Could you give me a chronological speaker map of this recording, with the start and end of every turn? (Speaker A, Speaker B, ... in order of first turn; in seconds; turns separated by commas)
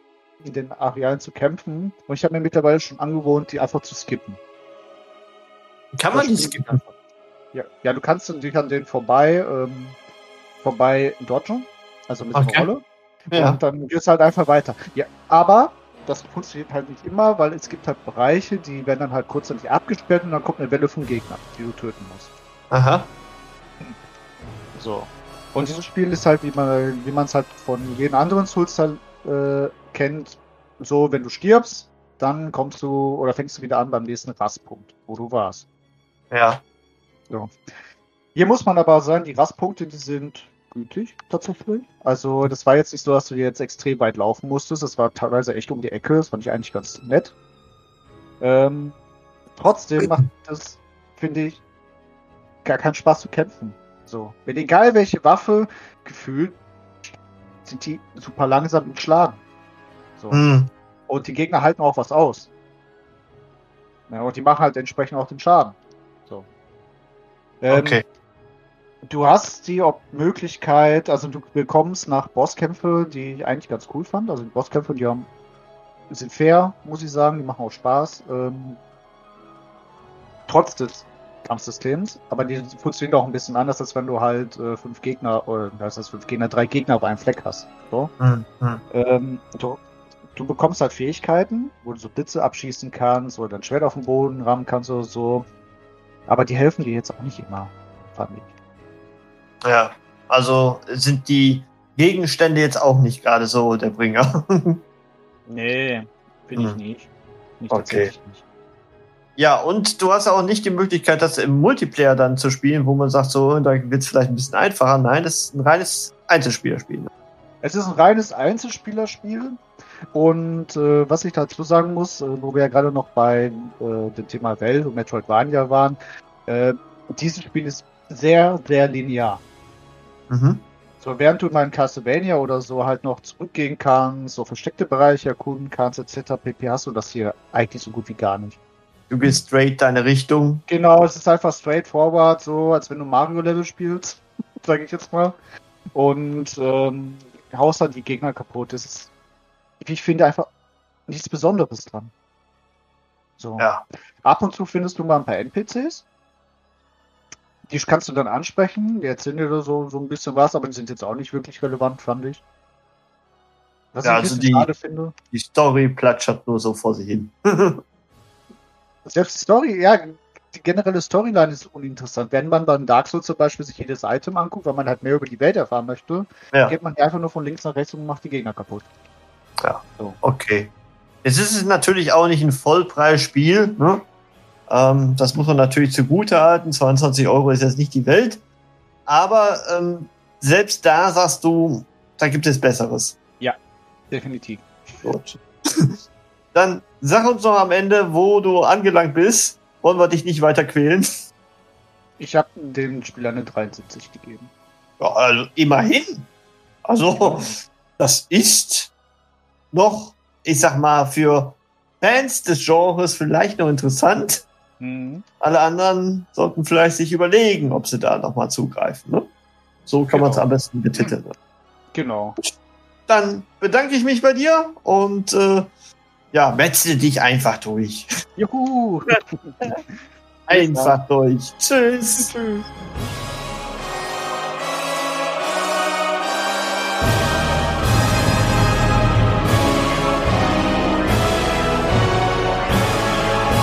Speaker A: 0.4-4.4, Speaker B: 6.0-6.8, Speaker A: 6.1-6.9, Speaker A: 7.5-10.0, Speaker A: 10.6-22.3, Speaker B: 12.3-12.7, Speaker B: 13.3-13.6, Speaker B: 22.7-23.1, Speaker A: 24.8-35.7, Speaker B: 36.3-36.6, Speaker A: 38.4-47.3, Speaker A: 48.4-49.0, Speaker A: 49.6-51.6, Speaker A: 52.6-56.6, Speaker A: 57.6-59.4, Speaker A: 60.2-60.5, Speaker B: 60.3-60.7, Speaker A: 61.1-62.5, Speaker A: 64.1-66.5, Speaker A: 67.6-68.0, Speaker B: 67.7-68.0, Speaker A: 69.1-75.3, Speaker A: 76.1-78.8, Speaker A: 80.5-88.1, Speaker B: 88.2-88.8, Speaker A: 88.9-89.8, Speaker A: 90.3-95.5, Speaker A: 96.3-98.5, Speaker B: 99.6-104.8, Speaker A: 105.5-108.4, Speaker B: 107.7-108.1, Speaker B: 109.4-117.1, Speaker A: 117.6-119.6, Speaker A: 120.1-129.4, Speaker B: 130.3-130.6, Speaker A: 131.0-138.6, Speaker B: 139.1-140.6, Speaker A: 140.7-145.4, Speaker A: 145.9-149.1, Speaker A: 149.8-150.5, Speaker A: 151.1-152.1, Speaker A: 153.4-156.1, Speaker B: 153.6-153.8, Speaker A: 157.7-162.4, Speaker A: 163.9-165.1, Speaker B: 164.0-164.7, Speaker B: 165.3-167.8, Speaker A: 169.1-178.9, Speaker B: 179.6-180.7, Speaker B: 181.2-184.0, Speaker B: 184.7-188.4, Speaker B: 189.1-193.2, Speaker A: 194.1-195.1, Speaker B: 195.0-195.9, Speaker B: 196.5-201.1, Speaker A: 202.2-204.5, Speaker B: 205.0-206.3, Speaker B: 206.8-208.9, Speaker A: 207.2-207.6, Speaker B: 209.7-214.4, Speaker A: 214.8-215.2, Speaker B: 215.4-219.3, Speaker B: 219.9-221.3, Speaker A: 220.1-220.5, Speaker A: 221.9-222.4, Speaker B: 223.1-225.7, Speaker B: 226.3-228.1, Speaker A: 228.4-229.9, Speaker B: 230.5-232.3, Speaker A: 230.5-231.0, Speaker A: 232.2-232.7